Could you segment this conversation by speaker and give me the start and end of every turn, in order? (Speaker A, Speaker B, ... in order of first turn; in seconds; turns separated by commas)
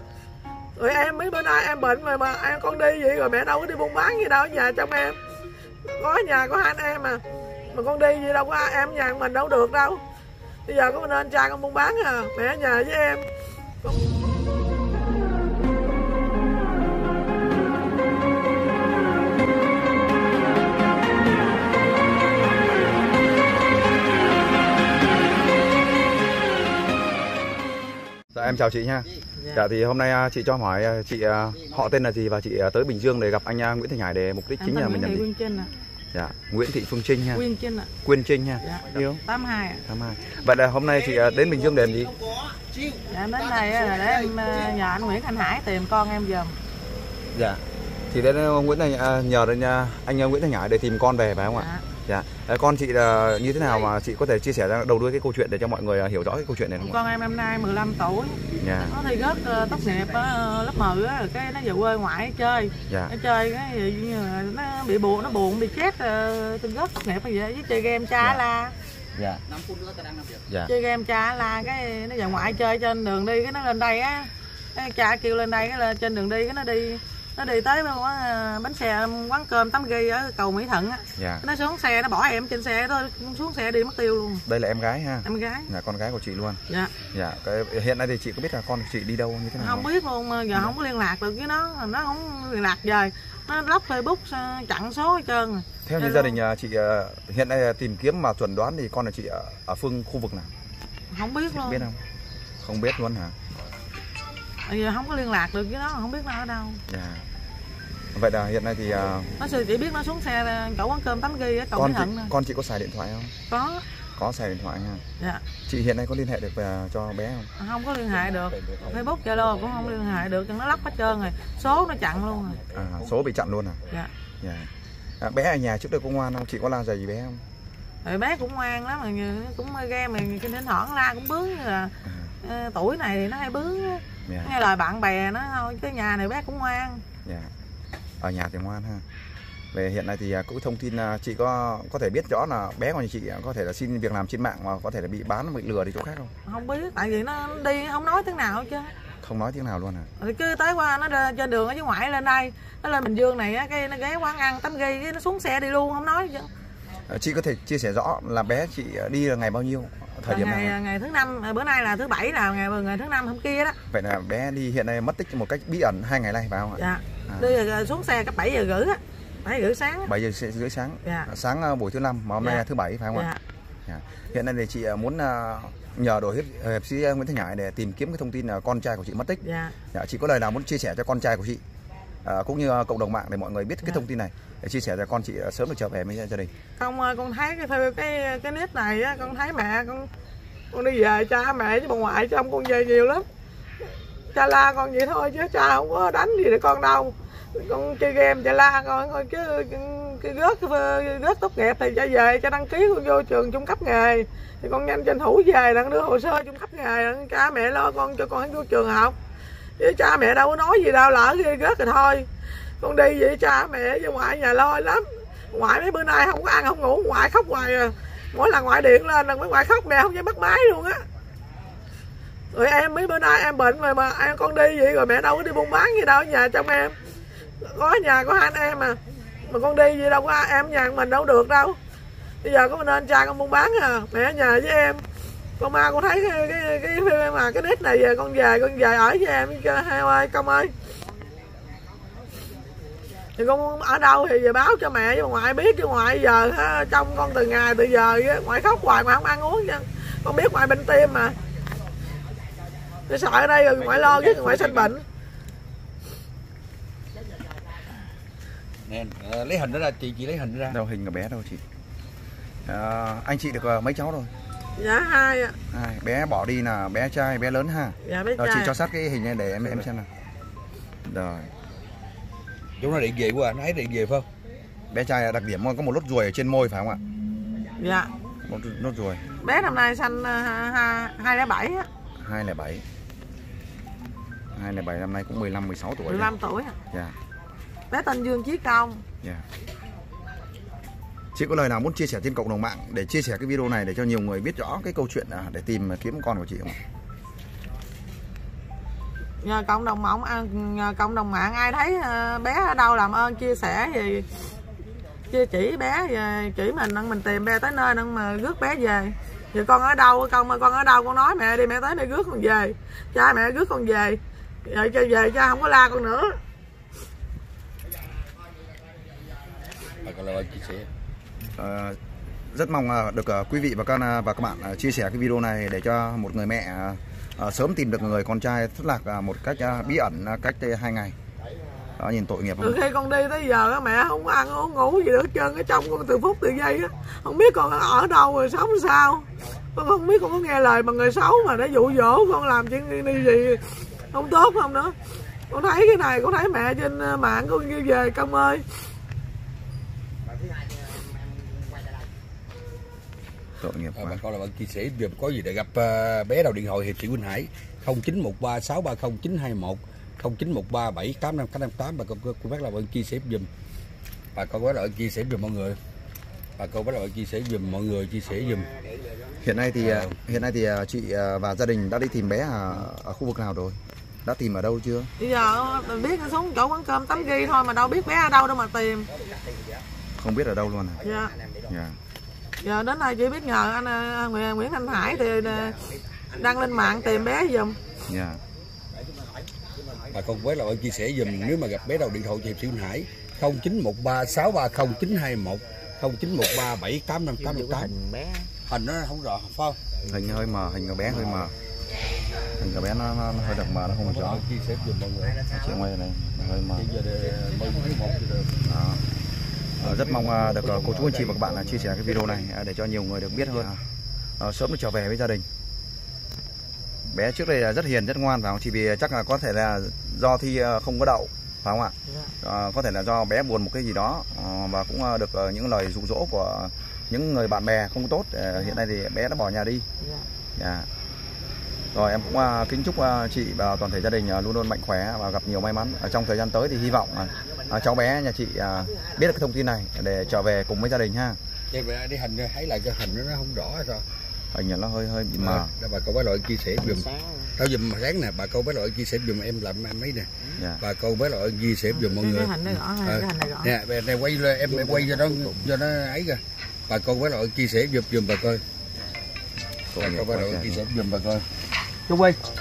Speaker A: 0.8-5.2, Speaker A: 5.8-10.0, Speaker A: 10.7-13.3, Speaker B: 28.3-35.2, Speaker A: 29.4-29.6, Speaker A: 34.6-35.7, Speaker B: 36.1-37.4, Speaker A: 37.3-37.9, Speaker B: 38.0-39.2, Speaker A: 38.6-39.8, Speaker B: 39.9-42.2, Speaker A: 43.0-46.6, Speaker B: 47.3-57.0, Speaker A: 51.5-51.9, Speaker A: 56.8-68.8, Speaker B: 58.6-59.0, Speaker B: 62.9-63.1, Speaker B: 69.2-69.4, Speaker A: 70.7-84.5, Speaker B: 81.2-81.4, Speaker B: 84.5-86.6, Speaker A: 85.2-85.7, Speaker B: 87.1-89.9, Speaker A: 89.6-96.4, Speaker B: 95.9-100.5, Speaker A: 101.1-101.8, Speaker B: 101.5-102.0, Speaker B: 102.6-103.3, Speaker A: 104.7-106.8, Speaker B: 106.9-107.2, Speaker B: 108.1-109.3, Speaker A: 109.4-112.3, Speaker B: 111.8-113.3, Speaker A: 113.5-113.8, Speaker B: 114.2-115.0, Speaker A: 115.2-115.5, Speaker B: 115.7-117.5, Speaker A: 117.6-122.6, Speaker C: 118.5-119.3, Speaker C: 122.7-123.1, Speaker B: 122.7-123.8, Speaker B: 124.4-124.7, Speaker B: 125.2-127.4, Speaker A: 128.0-137.0, Speaker B: 132.0-132.3, Speaker B: 134.3-134.5, Speaker B: 137.2-137.5, Speaker B: 138.2-139.0, Speaker B: 139.7-146.3, Speaker A: 146.5-148.9, Speaker B: 149.2-150.1, Speaker A: 150.2-156.5, Speaker B: 157.1-160.8, Speaker A: 160.3-163.8, Speaker B: 163.9-167.6, Speaker A: 166.8-170.1, Speaker B: 170.1-173.3, Speaker A: 171.0-171.3, Speaker A: 172.4-173.4, Speaker B: 173.9-179.4, Speaker A: 179.4-179.8, Speaker B: 179.9-181.6, Speaker B: 182.2-186.5, Speaker A: 186.8-190.1, Speaker A: 190.7-193.2, Speaker A: 194.3-209.2, Speaker A: 209.8-212.3, Speaker A: 212.8-221.0, Speaker A: 222.5-226.9, Speaker A: 227.6-231.8, Speaker A: 232.4-235.0, Speaker A: 235.6-240.7, Speaker A: 243.4-251.4, Speaker A: 253.1-255.0, Speaker C: 253.9-254.9, Speaker C: 258.9-260.8, Speaker B: 260.7-261.6, Speaker B: 262.7-264.3, Speaker A: 264.8-265.6, Speaker B: 265.7-270.1, Speaker A: 268.0-268.8, Speaker B: 271.1-271.5, Speaker C: 272.8-274.3, Speaker B: 274.9-277.0, Speaker A: 277.8-278.1, Speaker B: 278.4-279.2, Speaker A: 279.4-281.9, Speaker B: 282.2-282.8, Speaker B: 284.5-286.3, Speaker A: 286.1-286.8, Speaker A: 287.9-289.0, Speaker B: 291.4-296.8, Speaker A: 299.4-304.3, Speaker A: 305.3-316.4, Speaker C: 320.0-320.9, Speaker B: 321.6-322.0, Speaker B: 322.5-331.1, Speaker B: 332.0-332.8, Speaker A: 332.6-344.9, Speaker A: 345.5-348.6, Speaker B: 353.6-354.2, Speaker C: 353.9-363.5, Speaker C: 364.4-365.8, Speaker C: 366.6-368.7, Speaker B: 369.4-375.1, Speaker C: 369.8-370.4, Speaker A: 375.2-379.1, Speaker B: 380.2-381.0, Speaker A: 381.0-381.4, Speaker B: 381.7-382.0, Speaker A: 382.6-385.8, Speaker A: 386.3-387.8, Speaker B: 388.1-388.4, Speaker C: 390.1-397.9, Speaker D: 397.4-398.5, Speaker C: 398.6-400.1, Speaker B: 400.1-401.5, Speaker C: 401.1-401.5, Speaker B: 402.6-404.4, Speaker C: 404.0-405.5, Speaker B: 405.5-406.9, Speaker C: 406.4-408.6, Speaker B: 408.6-409.0, Speaker B: 409.8-413.8, Speaker C: 409.8-412.5, Speaker B: 414.4-415.4, Speaker B: 417.1-429.9, Speaker A: 422.1-422.3, Speaker A: 430.0-430.3, Speaker B: 430.6-430.9, Speaker B: 431.9-441.4, Speaker C: 441.7-444.1, Speaker B: 444.5-445.7, Speaker C: 445.4-458.6, Speaker D: 446.8-447.5, Speaker B: 450.6-450.8, Speaker A: 451.9-453.7, Speaker D: 454.7-455.7, Speaker B: 459.9-460.8, Speaker C: 460.0-461.5, Speaker C: 462.1-462.4